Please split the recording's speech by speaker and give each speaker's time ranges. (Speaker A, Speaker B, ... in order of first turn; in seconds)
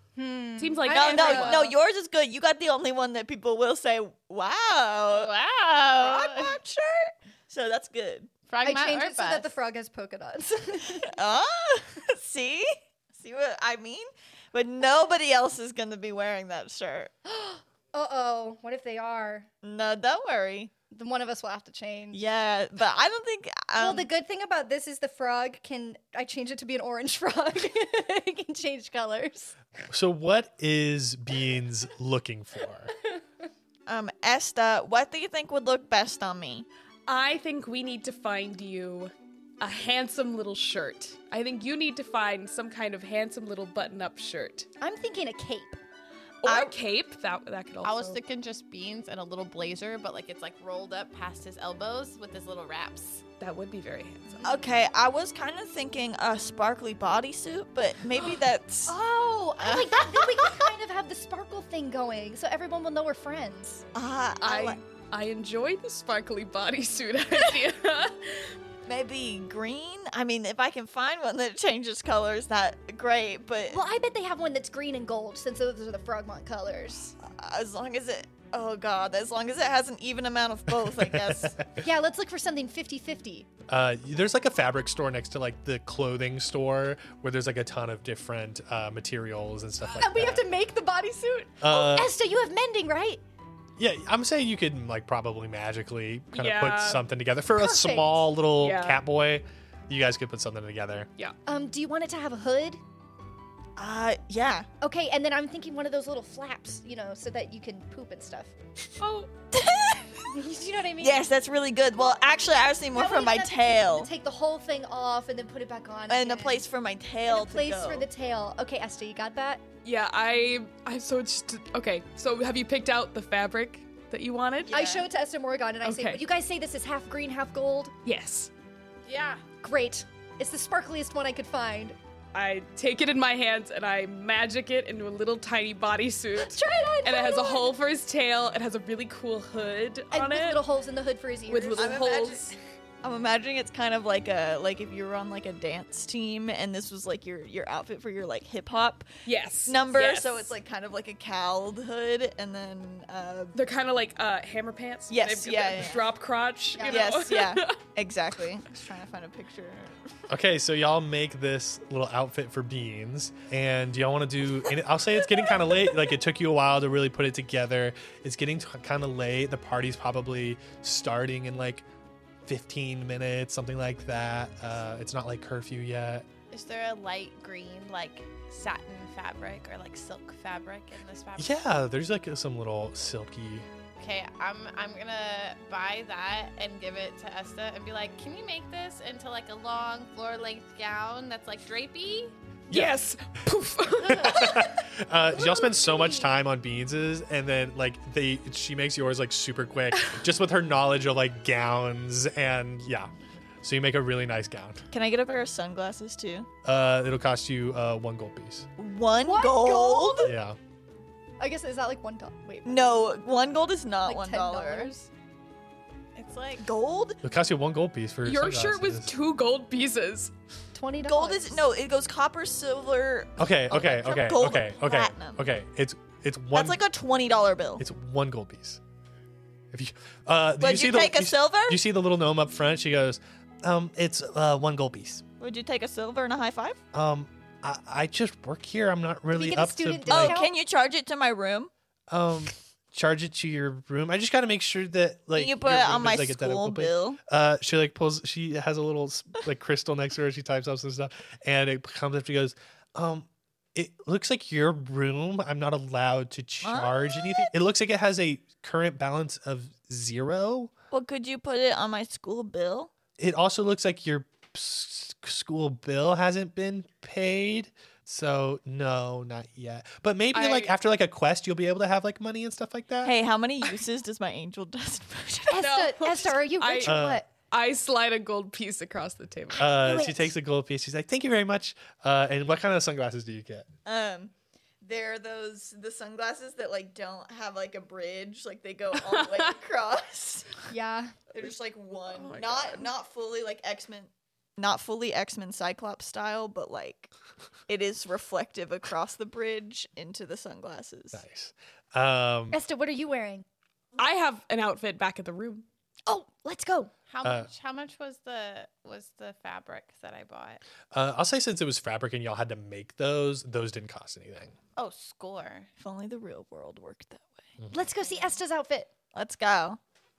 Speaker A: 0.1-1.7, 8.6-11.1, 17.2-19.5, 20.9-22.2, 23.8-29.6, 44.8-45.8, 58.9-63.8, 73.7-77.1, 81.8-83.5, 89.9-93.2, 97.5-98.2, 101.5-102.8, 104.8-108.5, 110.3-111.3, 112.9-116.6, 117.2-119.6, 124.7-127.9, 129.6-132.0, 136.3-137.8, 140.1-142.0, 156.7-157.2, 195.4-196.3, 209.2-210.3, 211.4-212.9, 214.0-215.1, 220.7-221.7, 239.3-240.5, 275.5-277.3, 279.7-280.3, 290.7-291.1, 302.5-303.4, 306.1-306.9, 317.7-318.9
Speaker B: 0.6-1.6, 37.1-44.7, 46.4-48.2, 53.4-54.5, 64.4-68.5, 96.3-97.0, 98.6-99.0, 109.0-109.3, 119.8-124.7, 125.8-126.2, 128.0-128.5, 132.3-140.6, 141.5-142.6, 149.2-150.5, 153.5-157.8, 192.7-194.7, 218.2-220.3, 270.3-270.7, 275.6-279.9, 288.9-289.5, 292.1-292.9, 304.0-305.6
Speaker C: 0.9-5.3, 6.0-8.3, 11.0-17.1, 19.6-20.7, 22.1-24.1, 33.9-36.7, 46.4-46.7, 54.4-58.9, 59.6-60.2, 63.9-64.8, 68.8-73.8, 77.2-81.6, 103.8-104.7, 109.5-110.2, 111.0-114.1, 116.1-118.1, 124.7-125.1, 141.7-153.6, 155.1-156.1, 156.8-160.1, 204.9-206.5, 208.8-210.3, 212.6-214.9, 216.6-217.2, 221.1-225.4, 226.5-227.8, 230.6-231.8, 235.4-236.8, 240.1-241.7, 245.3-247.2, 256.6-257.5, 260.9-262.9, 273.0-275.8, 283.8-290.6, 291.3-297.1, 297.7-301.2, 315.8-317.4, 319.1-319.8
Speaker D: 5.1-6.6, 8.5-9.5, 47.8-53.2, 129.0-129.4, 176.5-181.6, 184.0-192.3, 216.1-216.7, 307.1-310.6, 314.8-315.7
Speaker E: 29.9-32.9, 80.7-81.7, 83.7-90.5, 91.6-92.1, 93.8-101.1, 160.3-171.8, 172.4-176.2, 181.4-183.7, 192.7-192.9, 194.1-203.1, 203.6-204.8, 206.6-208.7, 210.2-210.6, 217.2-219.1, 223.4-226.8, 227.8-228.8, 229.7-235.2, 236.9-240.4, 242.1-260.7, 263.2-273.1, 276.8-277.2, 279.6-283.7, 301.1-302.6, 307.2-307.5, 310.9-314.6